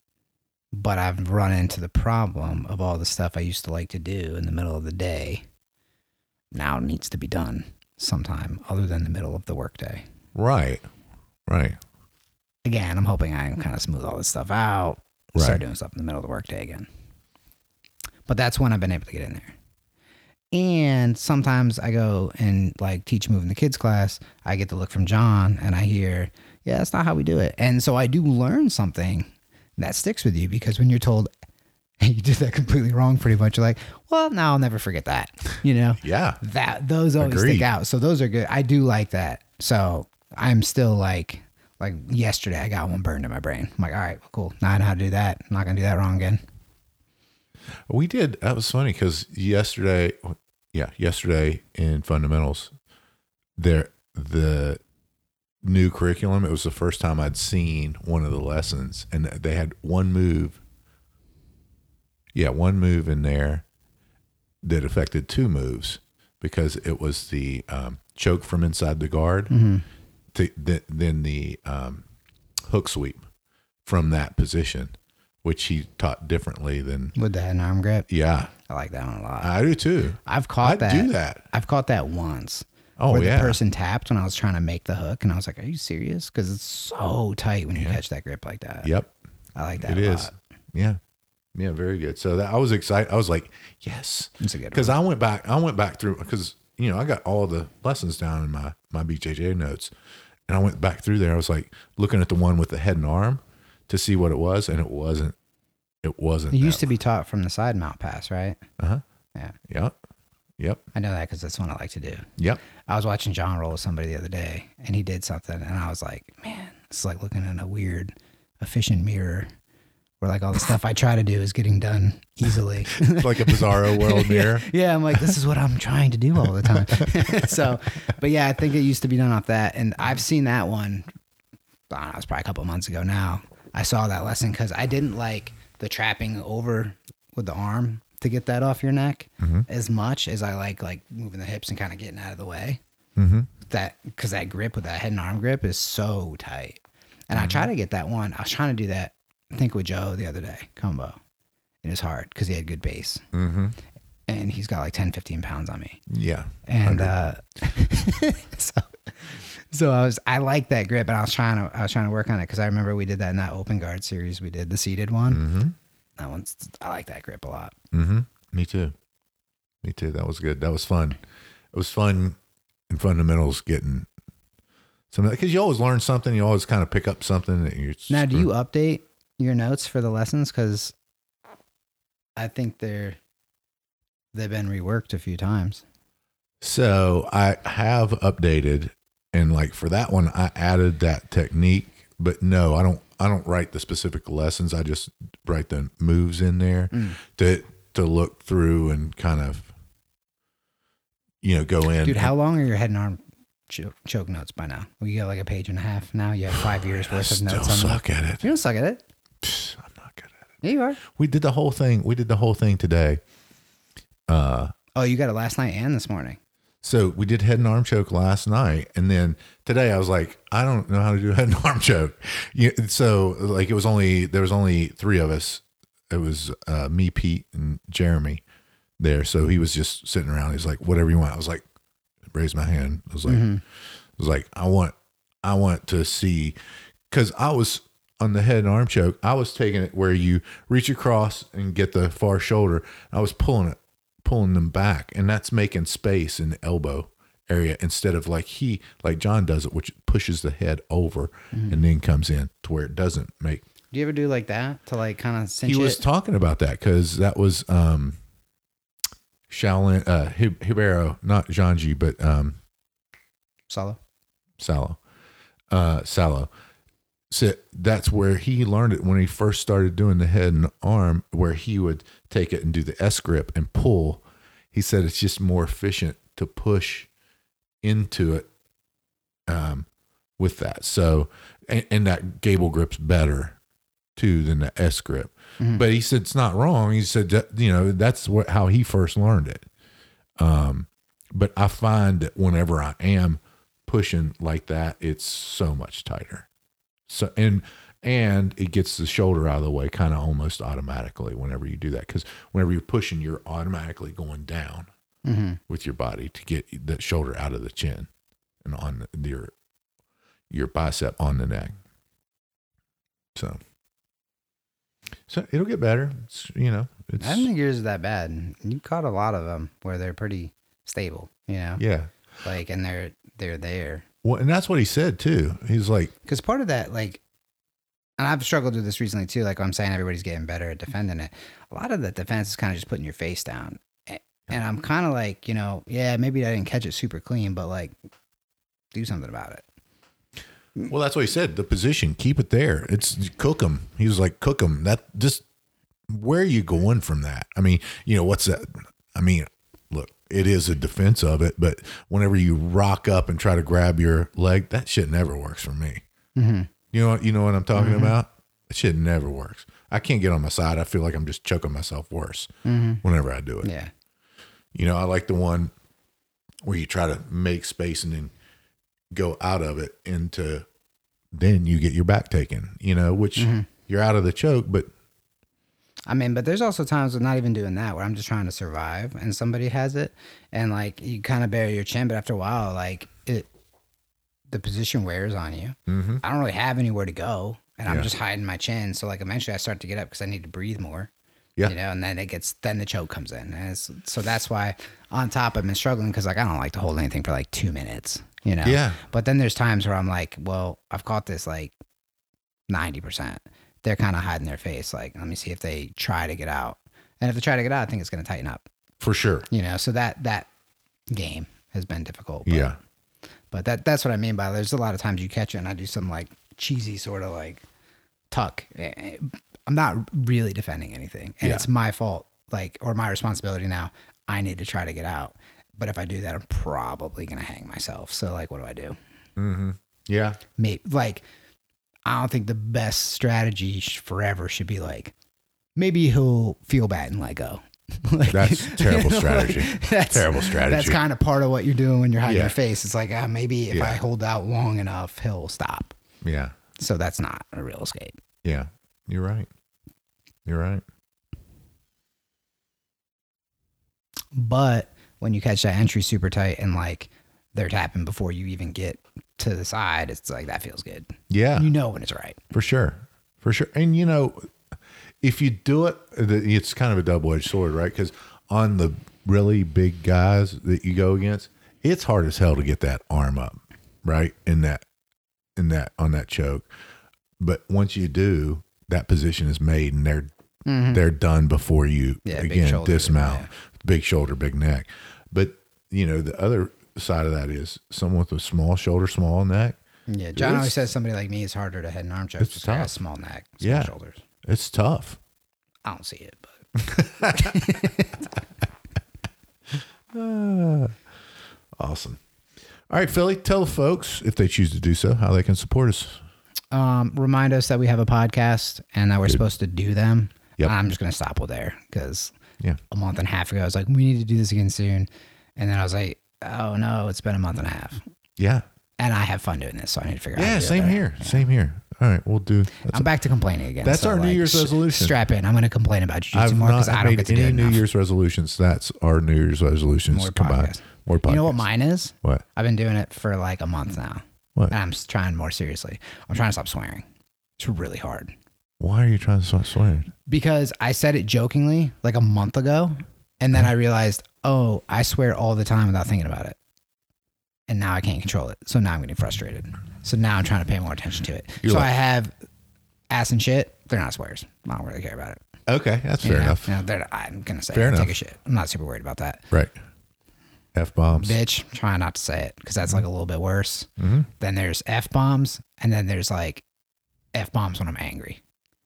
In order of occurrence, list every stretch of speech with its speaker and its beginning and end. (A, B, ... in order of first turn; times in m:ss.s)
0:00.7-0:05.4 A
0:06.5-0:10.0 A
0:10.3-0:10.8 B
0:11.4-0:11.8 B
0:12.6-0:16.9 A
0:15.4-0:15.6 B
0:18.3-0:19.5 A
0:20.5-0:31.3 A
0:32.0-0:46.4 A
0:36.0-0:36.4 B
0:37.2-0:37.7 B
0:47.9-0:52.7 B
0:53.6-0:54.8 B
0:55.6-1:00.6 B
1:02.3-1:03.6 B
1:04.6-1:09.5 B
1:09.5-1:09.8 A
1:10.3-1:12.0 B
1:12.6-1:13.2 B
1:13.8-1:17.1 B
1:17.1-1:18.1 A
1:18.1-1:18.5 B
1:18.7-1:19.5 A
1:19.4-1:21.4 B
1:20.2-1:28.9 A
1:23.0-1:23.6 B
1:28.8-1:29.1 B
1:29.5-1:30.3 A
1:29.8-1:31.0 B
1:31.5-1:39.9 B
1:34.4-1:35.0 A
1:40.5-1:45.4 B
1:46.0-1:46.9 B
1:46.5-1:48.6 A
1:49.7-1:50.0 B
1:50.6-1:50.8 B
1:50.9-1:52.3 A
1:52.8-1:59.5 A
2:00.2-2:11.1 A
2:02.9-2:04.7 B
2:06.6-2:07.6 B
2:11.9-2:22.8 A
2:19.4-2:19.7 B
2:23.2-2:23.5 B
2:23.7-2:31.2 A
2:27.3-2:27.7 B
2:31.8-2:33.2 A
2:33.3-2:33.8 B
2:34.3-2:36.0 A
2:36.1-2:37.1 B
2:36.6-2:45.4 A
2:45.3-2:45.8 B
2:46.2-2:47.8 A
2:47.9-2:48.9 B
2:49.8-2:51.2 B
2:51.7-2:52.4 B
2:52.9-2:54.1 B
2:55.1-2:58.5 B
2:58.1-3:00.9 A
3:02.4-3:03.2 A
3:04.3-3:05.8 A
3:06.6-3:19.7 B
3:16.9-3:17.2 A
3:21.4-3:22.3 B
3:22.0-3:29.0 A
3:27.0-3:28.4 B
3:29.4-3:30.3 B
3:30.6-3:31.0 A
3:31.0-3:33.2 B
3:34.3-3:34.7 B
3:34.9-3:36.4 A
3:36.8-3:48.4 B
3:49.0-3:51.6 B
3:52.3-3:53.5 B
3:53.2-3:53.6 A
3:54.2-3:56.6 B
3:57.1-4:13.6 B
4:11.5-4:11.8 A
4:13.9-4:16.0 A
4:15.6-4:18.2 B
4:19.5-4:22.6 B
4:23.7-4:24.0 A
4:24.6-4:25.0 B
4:25.7-4:26.5 B
4:27.3-4:37.1 B
4:37.8-4:38.5 B
4:39.5-4:39.9 B
4:40.4-4:43.6 B
4:44.2-4:49.6 B
4:45.6-4:45.8 A
4:50.4-4:56.5 B
4:57.1-5:04.9 B
5:05.2-5:05.6 A
5:05.7-5:08.1 B
5:08.6-5:09.5 B
5:10.5-5:11.8 B
5:13.3-5:13.6 B
5:15.3-5:17.5 B
5:17.2-5:21.8 A
5:21.8-5:22.1 B
5:22.4-5:24.0 A
5:24.2-5:26.1 B
5:26.2-5:27.2 A
5:28.2-5:37.9 A
5:38.9-5:39.6 A
5:40.8-5:45.4 B
5:46.1-5:56.0 B
5:56.4-5:56.7 A
5:56.9-6:02.5 B
5:57.7-5:58.1 A
6:02.6-6:03.0 A
6:03.0-6:03.7 B
6:03.6-6:03.9 A
6:04.7-6:05.7 B
6:06.6-6:08.3 B
6:09.1-6:10.7 B
6:11.3-6:14.9 B
6:13.4-6:13.7 A
6:16.1-6:23.5 A
6:24.5-6:31.1 A
6:25.9-6:26.2 B
6:31.6-6:41.7 A
6:38.6-6:39.0 B
6:42.7-6:48.6 A
6:49.0-6:49.5 B
6:49.5-6:50.5 A
6:51.1-6:52.8 A
6:52.4-6:52.8 B
6:53.5-6:57.6 A
6:58.3-7:09.0 A
7:01.4-7:01.7 B
7:09.4-7:10.4 B
7:10.6-7:11.2 A
7:12.0-7:15.1 A
7:15.8-7:25.9 A
7:18.3-7:21.0 B
7:22.2-7:22.6 B
7:23.7-7:24.0 B
7:26.2-7:26.6 B
7:26.8-7:28.2 A
7:28.4-7:29.5 B
7:30.4-7:30.8 B
7:34.3-7:42.4 A
7:41.3-7:41.7 B
7:42.5-7:44.5 B
7:45.2-7:54.8 B
7:55.6-7:56.7 B
7:57.4-8:00.3 B
8:00.6-8:01.0 A
8:00.9-8:09.8 B
8:02.2-8:03.5 A
8:10.1-8:14.2 A
8:10.3-8:10.8 B
8:12.4-8:12.9 B
8:13.6-8:13.9 B
8:14.4-8:15.2 B
8:15.8-8:18.2 A
8:16.8-8:17.7 B
8:20.1-8:20.9 B
8:21.8-8:22.2 B
8:22.9-8:26.2 B
8:26.7-8:32.3 A
8:32.9-8:38.0 A
8:38.4-8:38.6 B
8:39.0-8:41.4 A
8:40.4-8:43.1 B
8:42.9-8:47.8 A
8:43.8-8:45.2 B
8:46.3-8:51.6 B
8:50.1-8:57.0 A
8:57.6-8:58.3 A
8:58.8-9:00.1 B
9:00.2-9:06.6 A
9:07.7-9:12.3 A
9:11.6-9:11.9 B
9:13.1-9:15.4 A
9:15.7-9:16.8 B
9:16.2-9:19.4 A
9:17.7-9:18.1 B
9:20.7-9:21.4 B
9:21.1-9:26.6 A
9:24.0-9:24.3 B
9:27.3-9:28.4 A